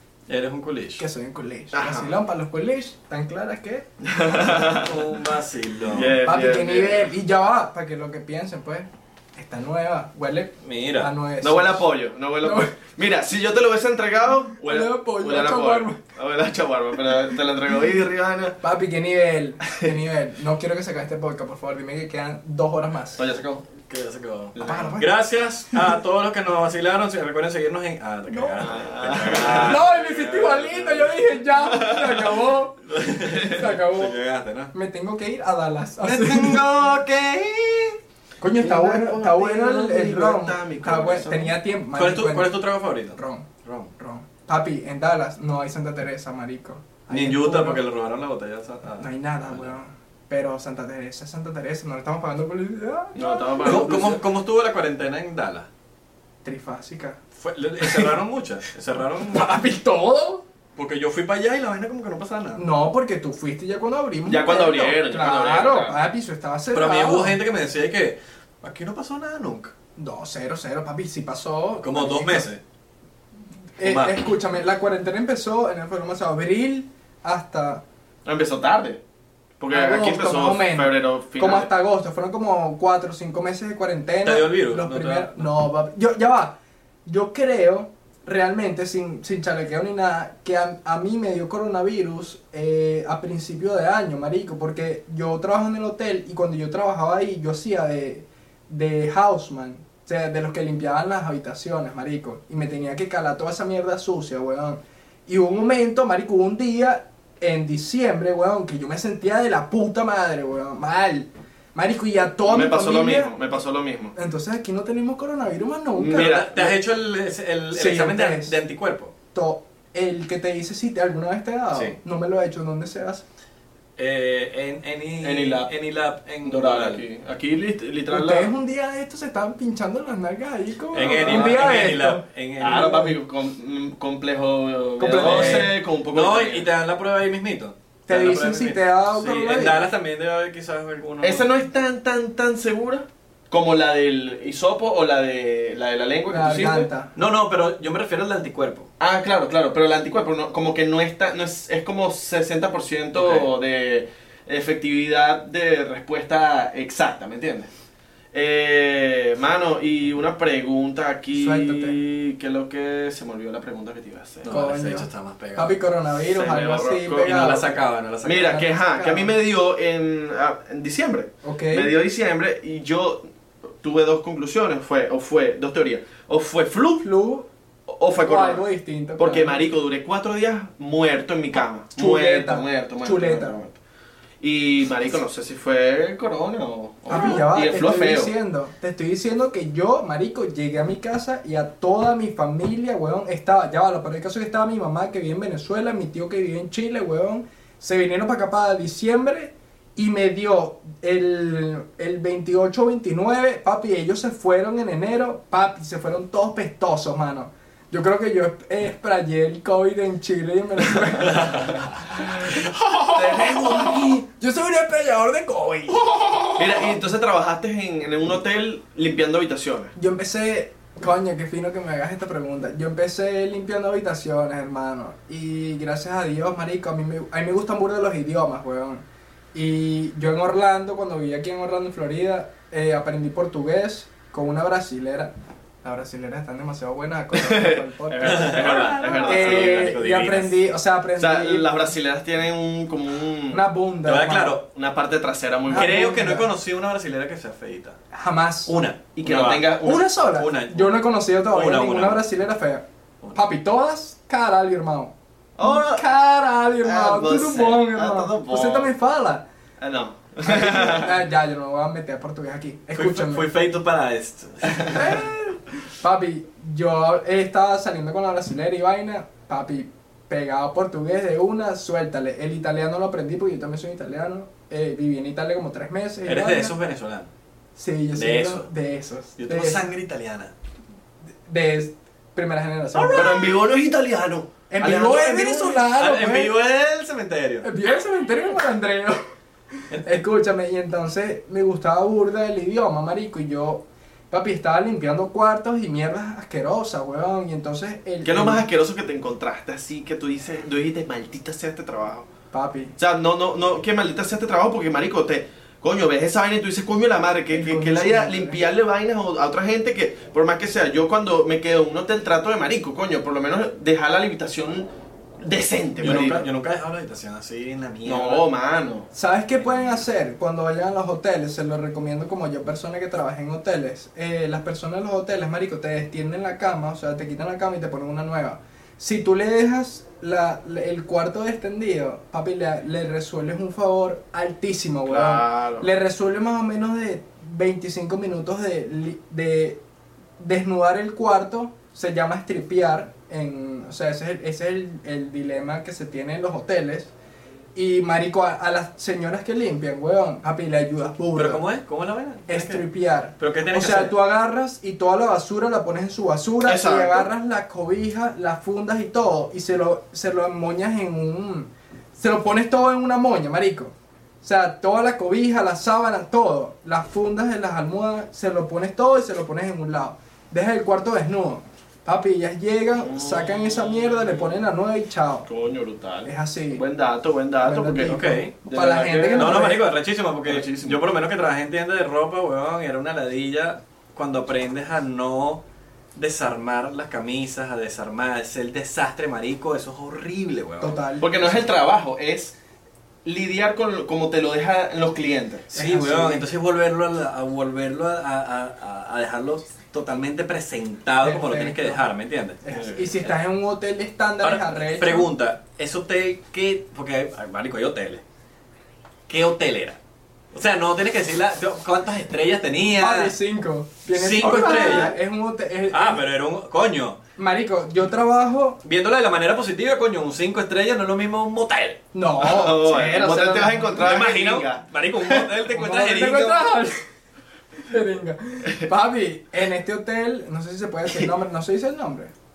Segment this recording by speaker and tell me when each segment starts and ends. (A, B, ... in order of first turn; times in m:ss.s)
0:00.3-0:01.0 A
0:01.0-0:03.9 B
0:01.7-0:02.1 C
0:04.0-0:04.9 C
0:04.6-0:06.2 A
0:05.9-0:07.1 C
0:06.2-0:11.8 B
0:10.6-0:11.1 A
0:11.4-0:18.6 C
0:12.4-0:12.7 B
0:14.6-0:16.0 B
0:18.6-0:23.2 B
0:23.2-0:23.7 C
0:23.8-0:31.3 A
0:24.5-0:25.0 C
0:24.6-0:25.1 B
0:28.3-0:28.7 B
0:28.6-0:29.8 C
0:29.5-0:34.2 B
0:31.8-0:32.2 C
0:32.9-0:34.7 A
0:34.7-0:36.7 B
0:36.0-0:38.0 A
0:38.4-0:47.8 B
0:38.6-0:41.5 C
0:41.9-0:43.9 A
0:47.1-0:49.7 A
0:49.0-0:53.9 B
0:53.1-0:54.2 C
0:53.6-0:55.7 A
0:56.4-0:57.2 B
0:57.4-0:59.6 A
0:57.8-0:58.1 B
0:59.3-1:00.4 B
1:00.8-1:02.6 A
1:02.6-1:07.4 B
1:04.3-1:06.0 C
1:06.7-1:09.7 A
1:10.0-1:12.5 B
1:11.8-1:12.6 A
1:13.8-1:17.8 B
1:13.8-1:14.2 A
1:18.2-1:19.0 C
1:19.6-1:21.7 C
1:19.7-1:53.3 B
1:24.2-1:25.5 A
1:52.4-1:54.1 C
1:54.2-1:56.5 B
1:56.0-1:56.7 C
1:56.1-1:59.1 A
1:57.7-1:58.6 B
1:59.3-2:03.2 B
2:04.0-2:07.0 A
2:05.2-2:05.7 C
2:06.4-2:08.5 C
2:08.1-2:12.2 B
2:10.9-2:13.1 A
2:11.0-2:11.7 C
2:12.6-2:16.7 C
2:15.0-2:15.7 B
2:15.1-2:21.5 A
2:18.1-2:19.8 B
2:21.2-2:26.9 C
2:26.3-2:27.1 B
2:27.1-2:28.9 A
2:29.0-2:37.7 C
2:33.1-2:33.5 A
2:38.3-2:44.5 C
2:41.3-2:42.0 B
2:44.4-2:45.7 A
2:44.5-2:47.7 B
2:46.3-2:47.7 C
2:47.2-2:48.6 A
2:48.2-2:53.2 C
2:48.4-2:49.3 B
2:51.4-2:51.9 B
2:53.8-2:57.0 C
2:57.0-2:57.5 B
2:57.9-2:58.6 C
2:58.2-2:59.6 B
2:59.2-3:03.8 C
3:02.0-3:03.6 B
3:04.4-3:08.3 C
3:07.1-3:37.0 B
3:33.0-3:34.2 C
3:36.6-3:39.9 C
3:39.9-3:55.3 B
3:55.8-3:58.6 B
3:57.3-3:59.9 C
3:58.2-4:00.6 A
3:59.2-4:01.7 B
4:01.2-4:03.6 C
4:03.5-4:04.6 B
4:04.0-4:04.6 A
4:04.7-4:06.1 C
4:05.7-4:06.5 B
4:05.7-4:08.0 A
4:08.1-4:08.7 B
4:08.6-4:12.2 A
4:09.2-4:10.0 C
4:09.8-4:19.4 B
4:15.6-4:16.0 C
4:16.8-4:18.9 C
4:19.8-4:21.2 C
4:20.4-4:23.5 B
4:22.9-4:25.2 A
4:24.9-4:36.7 B
4:36.2-4:37.3 A
4:37.8-4:39.9 B
4:38.1-4:38.7 A
4:39.4-4:40.5 A
4:41.4-4:43.4 B
4:42.9-4:43.6 A
4:43.0-4:45.8 C
4:44.7-4:46.5 B
4:45.7-4:47.7 A
4:47.6-4:49.2 B
4:50.0-4:58.6 B
4:58.2-5:02.3 C
5:02.5-5:02.9 B
5:03.0-5:14.9 C
5:07.5-5:08.6 B
5:15.4-5:16.4 C
5:16.0-5:18.4 A
5:18.0-5:19.1 C
5:19.1-5:39.8 B
5:35.1-5:35.9 C
5:40.4-5:47.1 B
5:47.7-5:51.6 B
5:51.3-5:52.8 A
5:52.5-6:15.5 B
5:53.4-5:54.1 A
5:56.6-5:57.3 C
6:13.0-6:14.5 C
6:15.5-6:19.7 C
6:16.2-6:16.8 B
6:17.6-6:19.8 B
6:18.0-6:18.5 A
6:19.4-6:25.6 A
6:20.4-6:21.0 C
6:26.2-6:31.0 A
6:30.8-6:31.3 B
6:31.2-6:32.5 C
6:33.2-6:35.7 C
6:35.7-6:42.6 A
6:35.7-6:36.4 B
6:41.2-6:42.1 B
6:42.6-6:45.3 B
6:42.7-6:43.1 C
6:44.4-6:48.2 A
6:49.3-6:50.0 A
6:50.5-6:53.3 A
6:53.0-6:56.2 B
6:54.1-6:55.1 A
6:54.4-6:55.1 C
6:55.9-6:57.2 A
6:57.4-6:58.8 B
6:58.8-7:02.0 A
7:02.1-7:04.1 B
7:02.4-7:05.5 C
7:04.0-7:06.7 A
7:05.7-7:07.0 B
7:07.9-7:12.3 B